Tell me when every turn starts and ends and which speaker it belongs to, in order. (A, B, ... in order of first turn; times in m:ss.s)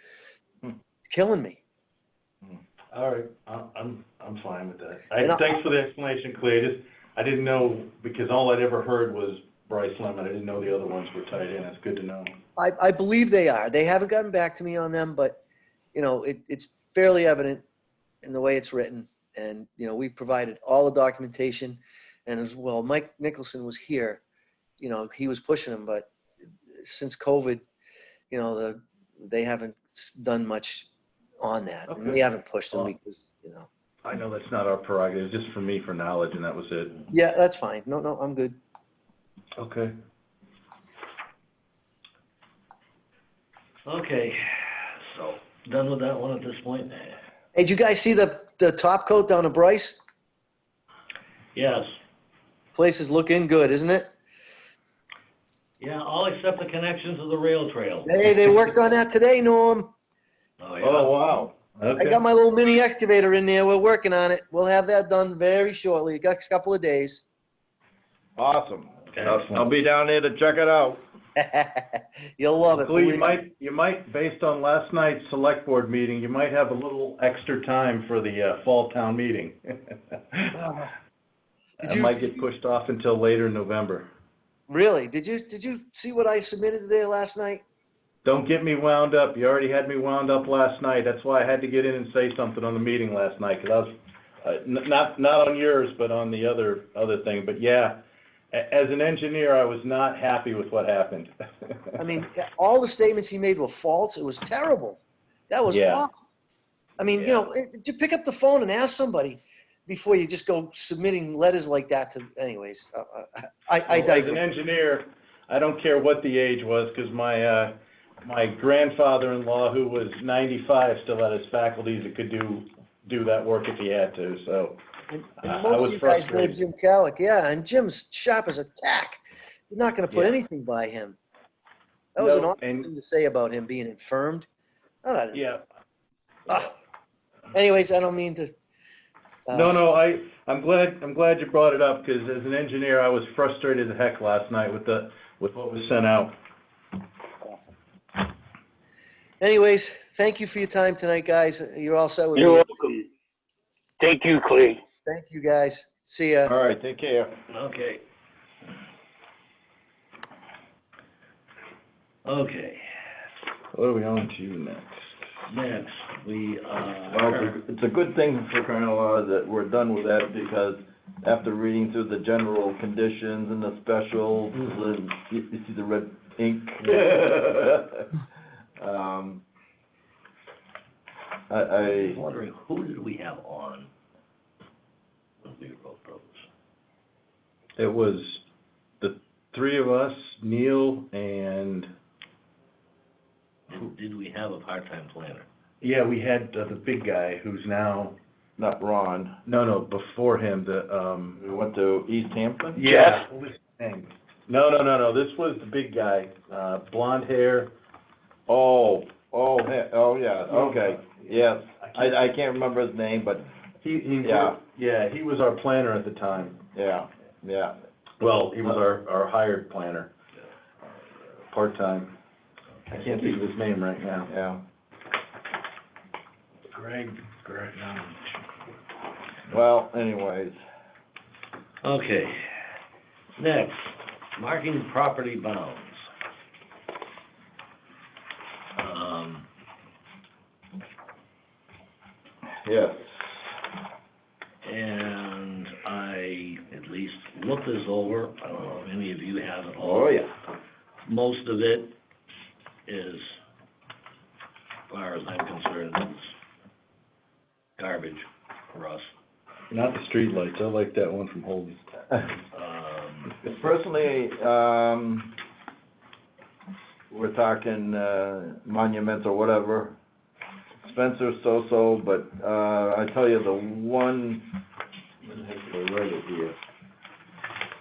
0:01.1-0:01.6 A
0:02.9-0:12.3 B
0:05.2-0:05.6 A
0:12.6-0:15.4 A
0:15.9-0:17.6 A
0:18.2-0:24.2 A
0:24.8-0:26.1 A
0:26.8-0:27.6 A
0:28.3-0:30.9 A
0:31.4-0:33.7 A
0:31.9-0:32.9 B
0:34.0-0:37.0 B
0:37.1-0:38.6 A
0:39.6-0:40.0 B
0:43.8-0:47.2 C
0:47.5-0:50.0 A
0:51.5-0:51.9 C
0:52.7-0:54.1 A
0:55.8-0:58.5 C
0:58.0-0:59.9 A
1:00.6-1:01.1 C
1:00.8-1:01.5 D
1:01.8-1:02.2 B
1:01.9-1:07.3 A
1:08.4-1:11.0 D
1:09.1-1:09.4 C
1:11.4-1:13.3 A
1:12.8-1:20.6 B
1:20.5-1:20.9 A
1:21.8-1:24.1 B
1:21.8-1:22.4 A
1:24.7-1:27.6 A
1:28.2-1:38.0 B
1:38.5-1:41.9 B
1:42.0-1:46.2 A
1:45.7-1:46.0 B
1:47.0-1:54.5 A
1:47.0-1:47.5 B
1:53.9-2:04.8 B
2:05.1-2:11.2 A
2:05.4-2:06.6 B
2:10.1-2:10.4 B
2:12.2-2:14.5 A
2:12.2-2:12.9 B
2:15.0-2:15.5 A
2:15.3-2:15.6 B
2:16.5-2:16.7 A
2:17.5-2:18.5 A
2:19.5-2:19.8 A
2:19.5-2:26.3 B
2:29.4-2:32.6 A
2:32.3-2:33.1 E
2:34.0-2:34.8 E
2:35.0-2:36.5 A
2:36.5-2:37.4 D
2:37.5-2:38.0 C
2:42.2-2:42.8 C
2:43.7-2:44.9 B
2:45.5-2:47.6 C
2:47.1-2:58.2 D
2:58.8-2:59.4 D
3:01.5-3:02.2 D
3:01.8-3:03.9 C
3:05.4-3:06.5 C
3:07.8-3:08.4 B
3:09.0-3:11.9 B
3:13.7-3:15.5 C
3:15.8-3:18.2 B
3:18.6-3:19.4 D
3:19.4-3:21.4 B
3:21.4-3:22.8 D
3:22.7-3:27.7 B
3:22.8-3:23.2 E
3:28.5-3:33.5 D
3:30.5-3:32.3 B
3:33.8-3:36.6 B
3:34.2-3:34.6 D
3:36.7-3:37.8 D
3:38.2-3:40.1 B
3:41.5-3:42.1 B
3:42.9-3:44.3 B
3:44.3-3:44.6 D
3:46.7-3:48.4 B
3:49.5-3:50.6 D
3:51.8-3:52.4 C
3:53.4-3:56.1 C
3:58.8-3:59.5 C
4:02.6-4:03.4 D
4:04.6-4:10.2 C
4:09.8-4:10.3 D
4:11.0-4:11.9 C
4:12.9-4:13.4 C
4:14.9-4:16.3 C
4:17.8-4:19.1 C
4:19.7-4:21.9 B
4:22.5-4:23.4 C
4:23.4-4:25.4 D
4:27.1-4:30.0 D
4:30.8-4:34.5 D
4:35.2-4:36.6 D